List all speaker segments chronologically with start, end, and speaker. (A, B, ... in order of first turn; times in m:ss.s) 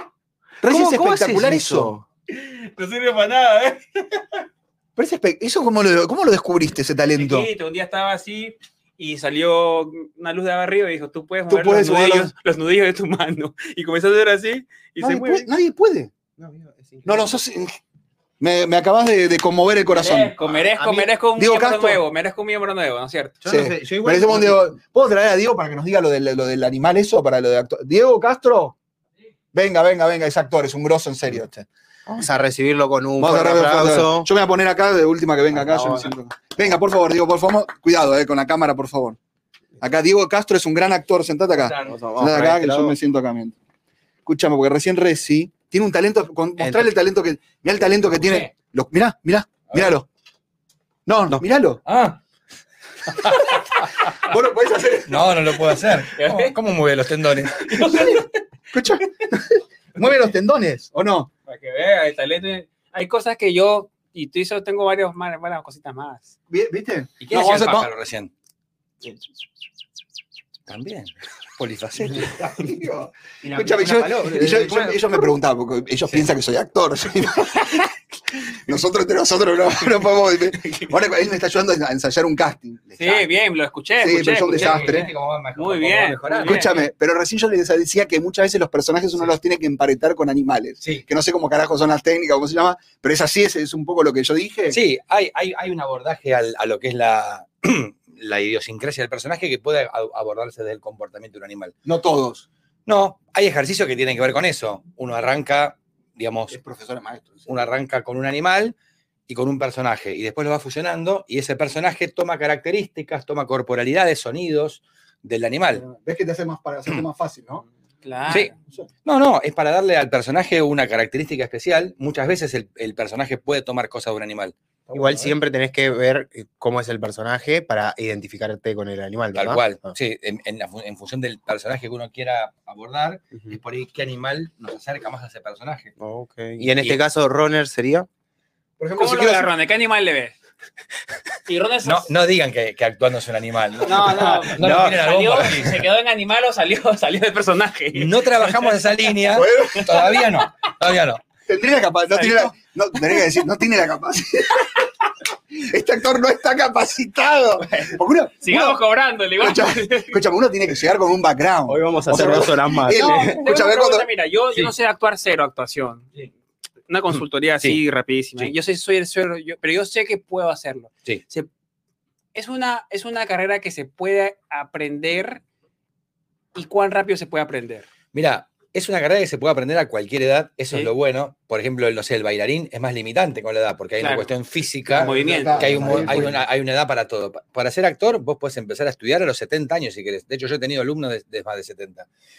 0:00.6-0:01.9 A
0:00.6-0:02.0 B
0:02.3-0:04.2 C
0:05.0-0:07.5 A
0:07.1-0:15.5 C
0:11.5-0:12.3 A
0:15.0-0:16.1 A
0:16.4-0:17.4 B
0:17.0-0:17.8 A
0:18.4-0:20.3 A
0:19.9-0:23.4 C
0:20.4-0:21.1 B
0:21.4-0:22.0 A
0:23.4-0:24.7 B
0:23.4-0:28.8 A
0:29.5-0:31.6 A
0:32.1-0:34.3 B
0:33.2-0:39.2 A
0:35.6-0:36.1 B
0:39.8-0:43.5 A
0:41.6-0:41.9 D
0:41.8-0:43.0 B
0:44.2-0:50.1 A
0:46.6-0:46.9 B
0:51.0-0:51.8 A
0:51.8-0:52.2 D
0:53.1-0:54.1 D
0:54.2-0:55.3 A
0:55.1-0:58.1 D
0:56.0-0:56.5 C
0:57.7-0:58.4 C
0:57.9-0:58.2 A
0:58.7-1:01.3 A
1:01.5-1:06.3 C
1:06.5-1:07.9 A
1:07.2-1:08.3 D
1:10.7-1:12.4 D
1:12.2-1:12.5 B
1:12.3-1:23.3 A
1:13.4-1:15.2 B
1:23.0-1:26.7 C
1:24.0-1:25.1 A
1:24.4-1:26.7 D
1:26.4-1:34.8 A
1:34.7-1:41.7 D
1:41.8-1:42.5 A
1:42.8-1:46.6 D
1:46.5-1:47.7 A
1:47.5-1:48.7 D
1:49.3-1:55.8 D
1:55.7-1:57.6 A
1:58.0-1:58.5 C
1:58.3-1:58.5 D
1:59.0-2:04.5 D
2:04.9-2:05.3 A
2:04.9-2:09.9 B
2:09.3-2:15.9 D
2:16.0-2:18.1 B
2:16.6-2:17.0 D
2:18.8-2:19.5 A
2:19.0-2:20.4 C
2:21.4-2:22.1 C
2:21.8-2:25.8 D
2:23.8-2:28.8 C
2:24.0-2:25.1 B
2:27.9-2:31.2 D
2:29.3-2:30.2 A
2:31.4-2:34.9 A
2:32.1-2:32.5 C
2:35.5-2:38.8 A
2:37.7-2:40.2 C
2:39.4-2:44.1 A
2:41.7-2:43.4 B
2:42.9-2:46.1 C
2:46.9-2:51.5 C
2:52.3-2:55.4 C
2:56.5-2:57.9 C
2:58.1-3:12.1 D
3:04.0-3:04.3 C
3:04.9-3:06.4 A
3:04.9-3:06.2 C